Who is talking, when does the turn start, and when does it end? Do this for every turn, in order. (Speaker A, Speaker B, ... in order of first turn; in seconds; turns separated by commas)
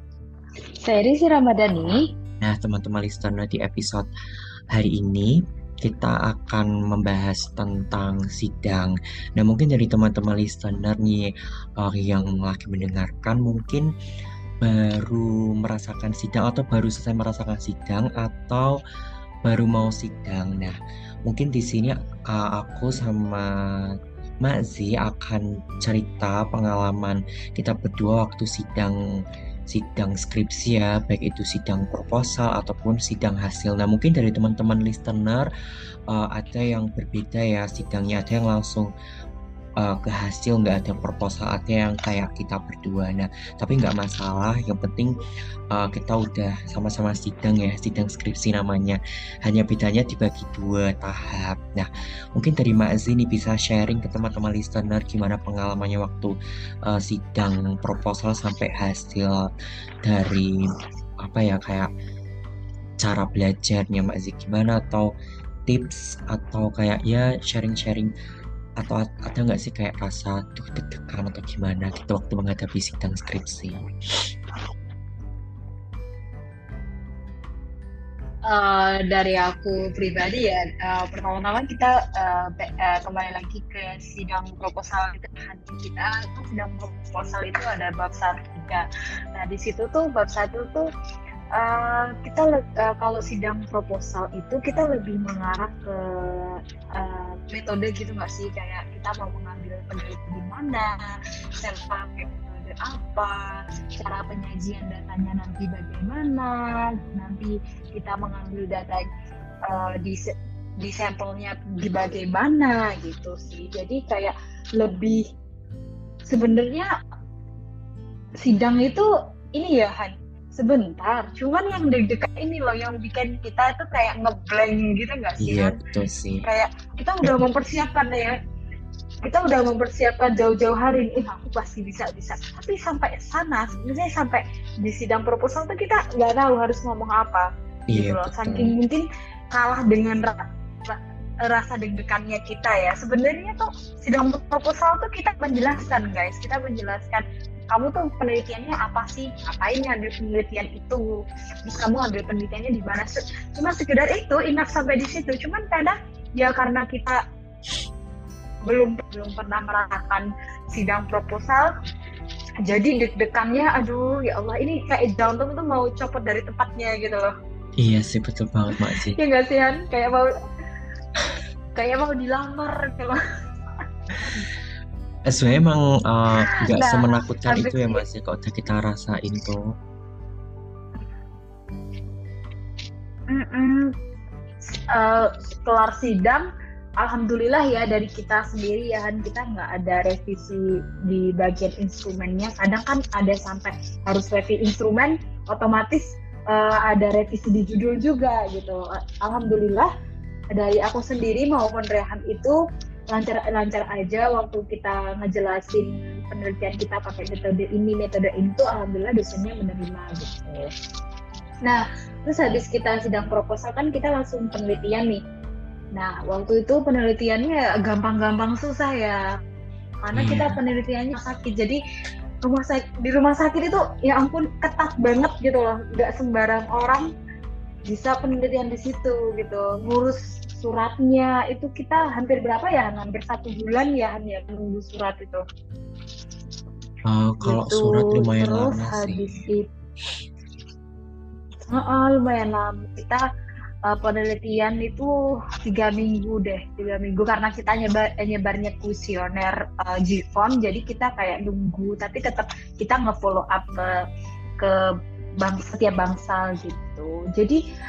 Speaker A: 0.8-2.0, Speaker B: 2.4-4.1, Speaker B: 4.7-13.9, Speaker B: 14.6-18.8, Speaker B: 19.4-29.0, Speaker B: 29.7-35.5, Speaker B: 36.1-38.9, Speaker B: 39.8-45.2, Speaker B: 45.7-56.3, Speaker B: 56.9-59.5, Speaker B: 60.0-60.7, Speaker B: 61.2-61.9, Speaker B: 63.0-65.1, Speaker B: 65.7-68.1, Speaker B: 68.8-73.9, Speaker A: 78.5-90.9, Speaker A: 91.5-109.1, Speaker A: 109.7-115.2, Speaker A: 116.3-116.9, Speaker A: 118.4-125.8, Speaker B: 125.4-126.4, Speaker A: 126.4-128.4, Speaker A: 129.2-151.1, Speaker B: 137.9-138.7, Speaker A: 151.7-157.2, Speaker A: 158.6-161.7, Speaker A: 162.6-167.3, Speaker B: 167.8-169.2, Speaker A: 168.7-170.3, Speaker A: 171.8-173.2, Speaker A: 174.2-174.5, Speaker B: 175.3-179.6, Speaker A: 176.3-178.0, Speaker A: 183.3-183.9, Speaker A: 184.7-186.5, Speaker A: 187.0-199.9, Speaker A: 200.5-202.6, Speaker A: 203.1-210.7, Speaker A: 211.7-215.2, Speaker A: 215.9-219.2, Speaker A: 220.1-221.8, Speaker B: 220.1-220.6, Speaker A: 222.4-227.1, Speaker A: 227.9-235.4, Speaker B: 237.1-239.3, Speaker A: 237.4-239.7, Speaker A: 241.7-243.2, Speaker A: 243.9-254.0, Speaker A: 255.4-257.6